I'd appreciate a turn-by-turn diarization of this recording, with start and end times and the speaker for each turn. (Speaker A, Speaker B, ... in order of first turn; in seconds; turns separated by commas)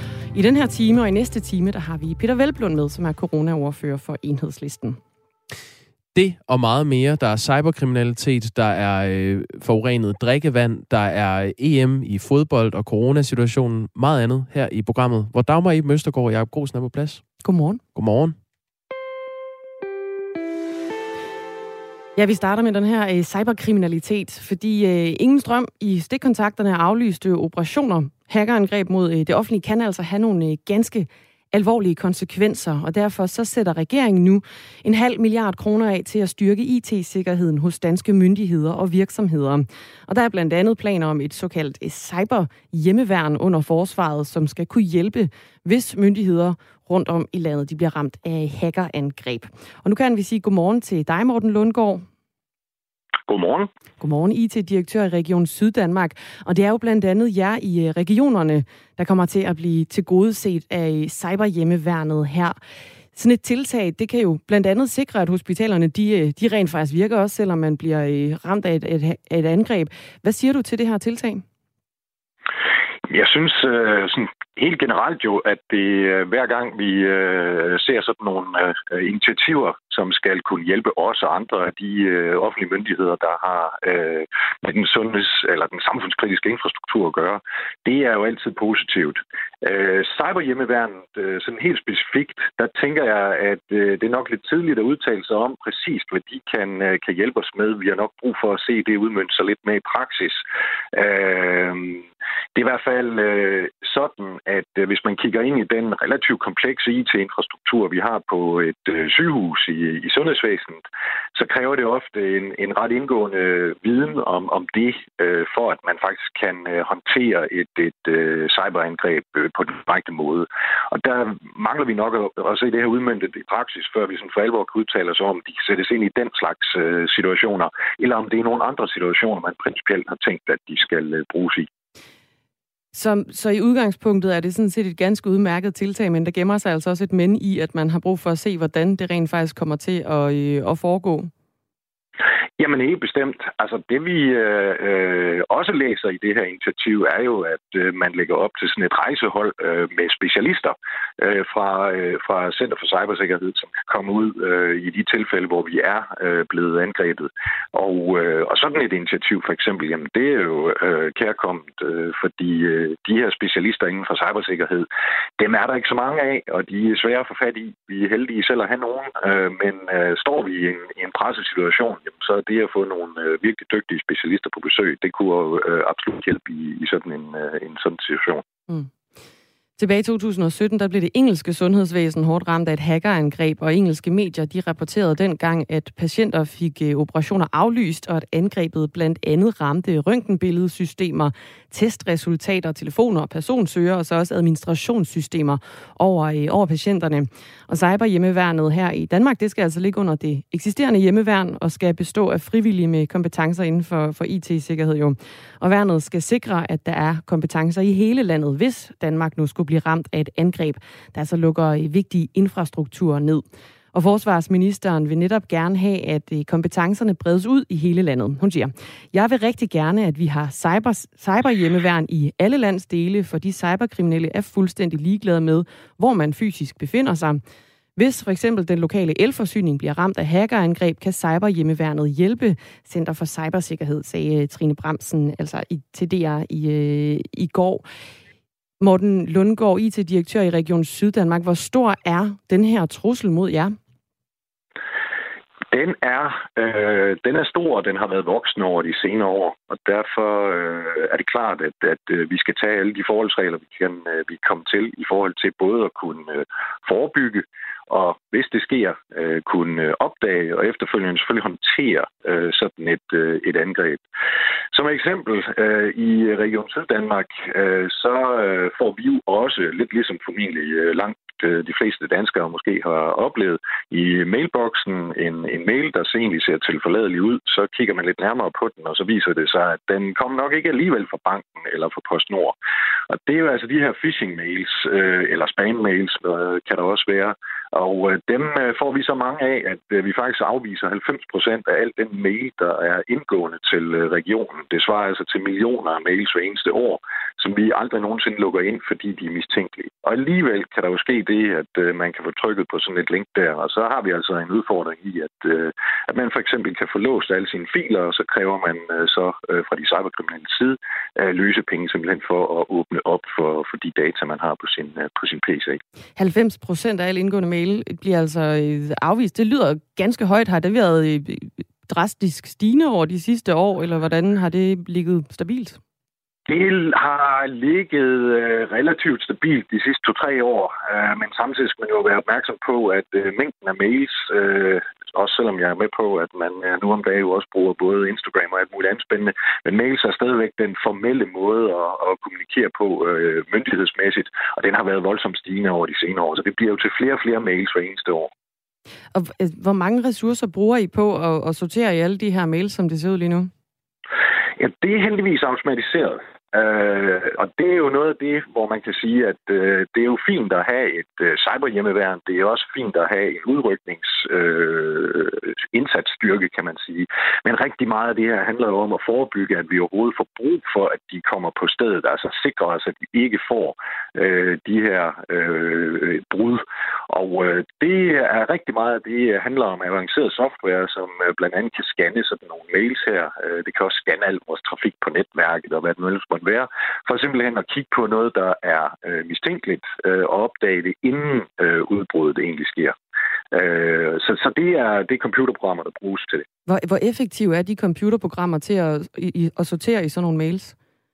Speaker A: 0.3-5.0, Speaker B: 6.1-17.4, Speaker A: 17.4-17.8, Speaker B: 17.9-18.4, Speaker A: 22.2-52.0, Speaker C: 53.3-53.7, Speaker A: 54.0-62.6, Speaker A: 63.1-71.4, Speaker C: 73.1-100.4, Speaker C: 100.9-110.8, Speaker C: 111.3-131.7, Speaker A: 132.9-141.3, Speaker C: 142.6-164.9, Speaker C: 165.4-178.4, Speaker A: 179.8-227.4, Speaker A: 228.0-237.8, Speaker A: 238.8-243.8, Speaker C: 245.7-264.0, Speaker C: 264.7-282.5, Speaker C: 283.1-315.8, Speaker A: 316.2-325.8, Speaker C: 326.5-348.3, Speaker A: 349.1-353.5, Speaker C: 354.6-392.9, Speaker C: 393.5-396.4, Speaker A: 396.7-400.7